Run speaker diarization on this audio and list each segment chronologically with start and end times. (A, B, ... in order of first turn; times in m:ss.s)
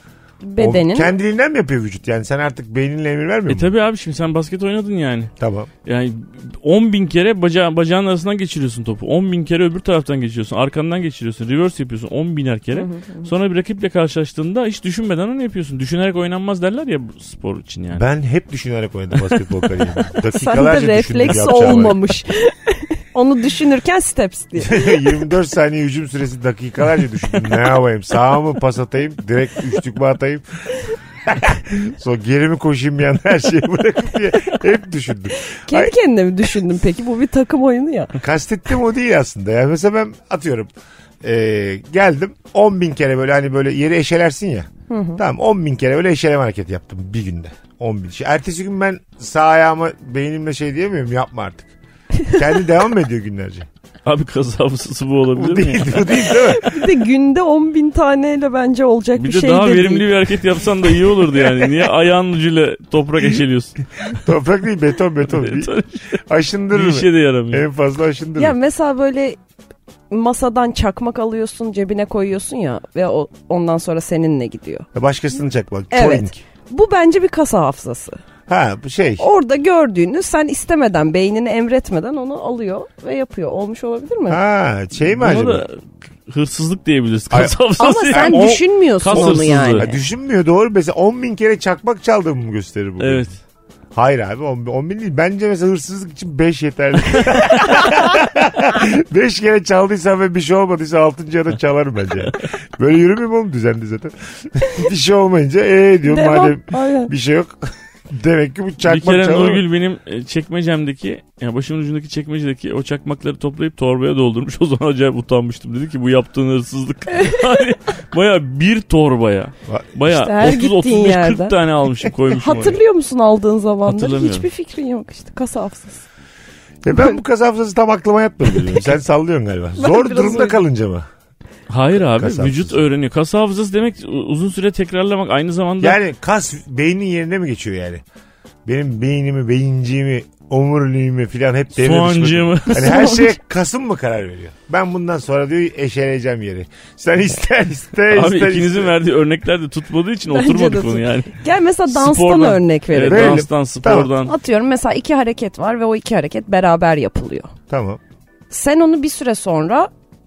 0:00.4-0:01.2 A
0:00.6-0:03.7 B
0:03.5-0:05.3 C
0:05.4-0:05.7 B
0:05.8-0:18.0 C
0:12.7-0:13.3 A
0:17.9-0:22.0 B
0:20.3-0:25.2 A
0:24.6-0:35.9 B
0:35.7-0:38.1 A
0:38.2-0:40.7 B
0:41.2-0:51.7 B
0:44.9-0:45.2 A
0:52.3-0:53.7 B
0:54.0-0:56.2 C
0:55.3-0:56.8 B
0:56.6-1:00.1 A
0:59.2-1:03.8 C
1:04.1-1:08.5 B
1:05.3-1:06.2 C
1:06.7-1:07.6 C
1:08.4-1:09.4 A
1:10.1-1:14.9 A
1:14.9-1:16.4 B
1:15.9-1:18.2 A
1:18.5-1:19.2 B
1:19.2-1:24.4 A
1:24.3-1:25.6 B
1:25.0-1:29.8 C
1:27.3-1:27.6 B
1:27.8-1:30.0 A
1:28.1-1:33.2 B
1:33.0-1:33.4 C
1:33.9-1:49.6 B
1:46.0-1:47.1 A
1:48.8-2:02.8 C
1:59.7-1:59.9 B
2:00.1-2:01.6 A
2:02.3-2:06.0 A
2:03.8-2:04.4 C
2:06.8-2:11.1 B
2:09.8-2:10.6 A
2:11.7-2:16.0 C
2:12.0-2:12.8 B
2:15.8-2:18.0 B
2:18.6-2:29.0 B
2:21.8-2:23.1 C
2:22.7-2:23.3 A
2:28.1-2:31.4 C
2:30.3-2:33.4 A
2:31.9-2:34.3 C
2:33.1-2:34.1 B
2:34.2-2:37.5 A
2:37.7-2:38.0 B
2:38.5-2:39.9 A